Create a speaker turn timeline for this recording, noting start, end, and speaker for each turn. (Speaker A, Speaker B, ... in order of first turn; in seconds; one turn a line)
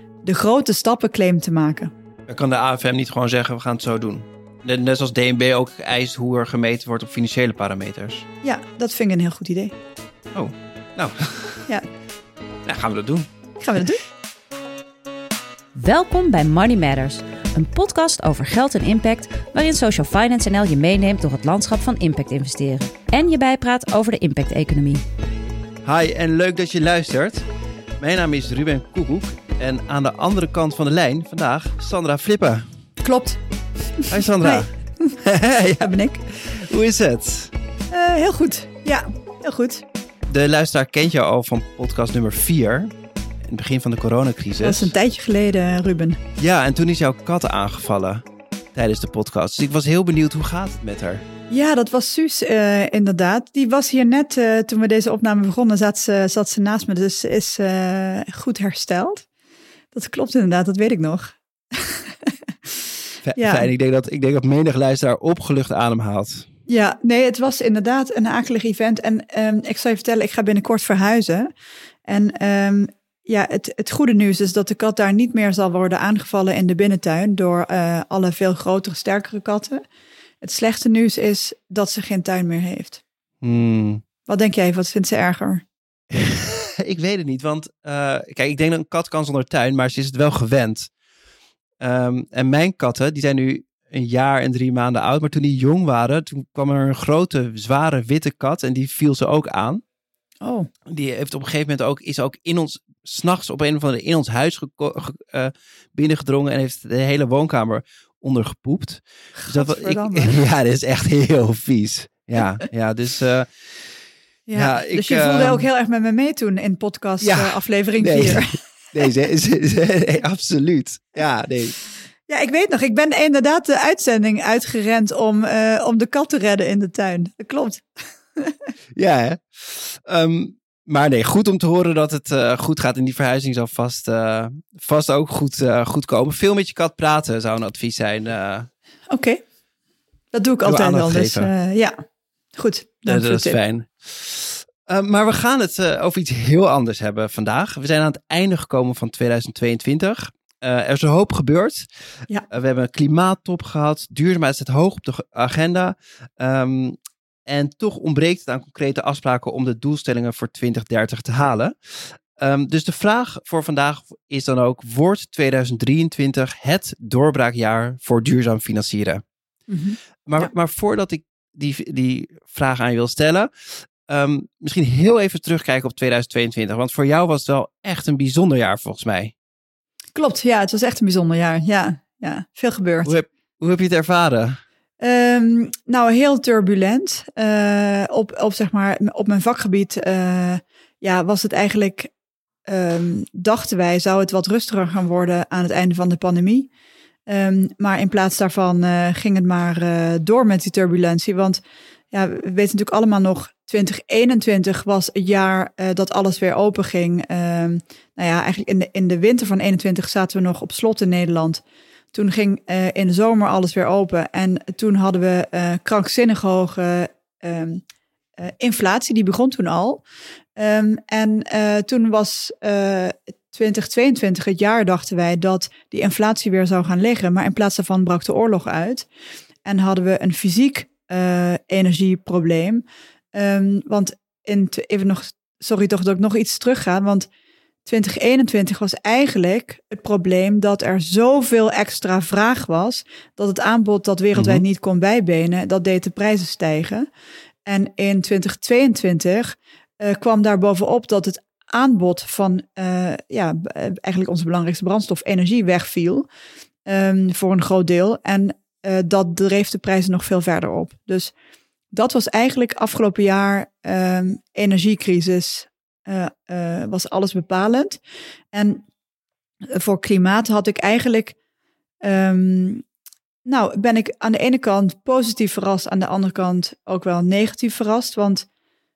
Speaker A: 0.2-1.9
Speaker B: 2.3-8.3
Speaker A: 8.4-9.8
Speaker B: 10.3-11.7
Speaker B: 12.7-13.3
Speaker A: 13.6-14.0
Speaker C: 15.8-25.0
Speaker B: 25.9-27.5
Speaker B: 28.0-32.7
Speaker A: 33.0-33.4
Speaker A: 34.0-35.2
Speaker B: 34.1-37.5
Speaker A: 35.8-36.2
Speaker A: 37.9-39.9
Speaker B: 40.3-44.9
Speaker A: 44.6-46.2
Speaker B: 46.4-51.2
Speaker A: 51.5-59.3
Speaker A: 59.9-62.3
Speaker B: 63.2-66.5
Speaker A: 63.4-63.7
Speaker A: 66.7-71.5
Speaker A: 72.1-79.8
Speaker A: 80.4-83.0
Speaker B: 83.4-84.0
Speaker A: 84.3-85.7
Speaker B: 86.1-90.9
Speaker B: 91.8-99.8
Speaker A: 100.4-100.7
Speaker B: 100.9-114.0
Speaker A: 109.4-110.4
Speaker A: 114.5-119.1
Speaker B: 114.5-115.7
Speaker B: 117.2-121.8
Speaker A: 122.3-127.8
Speaker B: 128.9-138.7
Speaker A: 139.1-139.4
Speaker A: 140.3-142.0
Speaker B: 140.7-141.5
Speaker A: 142.6-143.6
Speaker B: 143.1-151.9
Speaker B: 152.5-169.2
Speaker A: 169.7-170.5
Speaker B: 170.3-179.3
Speaker A: 180.2-183.1
Speaker B: 183.1-184.6
Speaker A: 185.0-192.1
Speaker A: 192.7-196.7
Speaker A: 197.3-201.6
Speaker A: 202.1-217.8
Speaker A: 218.4-220.0
Speaker A: 220.6-229.1
Speaker A: 229.7-237.3
Speaker A: 237.8-247.1
Speaker B: 244.3-244.6
Speaker A: 247.7-256.3
Speaker A: 256.9-261.3
Speaker A: 261.9-268.0
Speaker A: 268.5-268.9
Speaker A: 269.7-271.4
Speaker A: 272.0-272.9
Speaker A: 273.5-278.5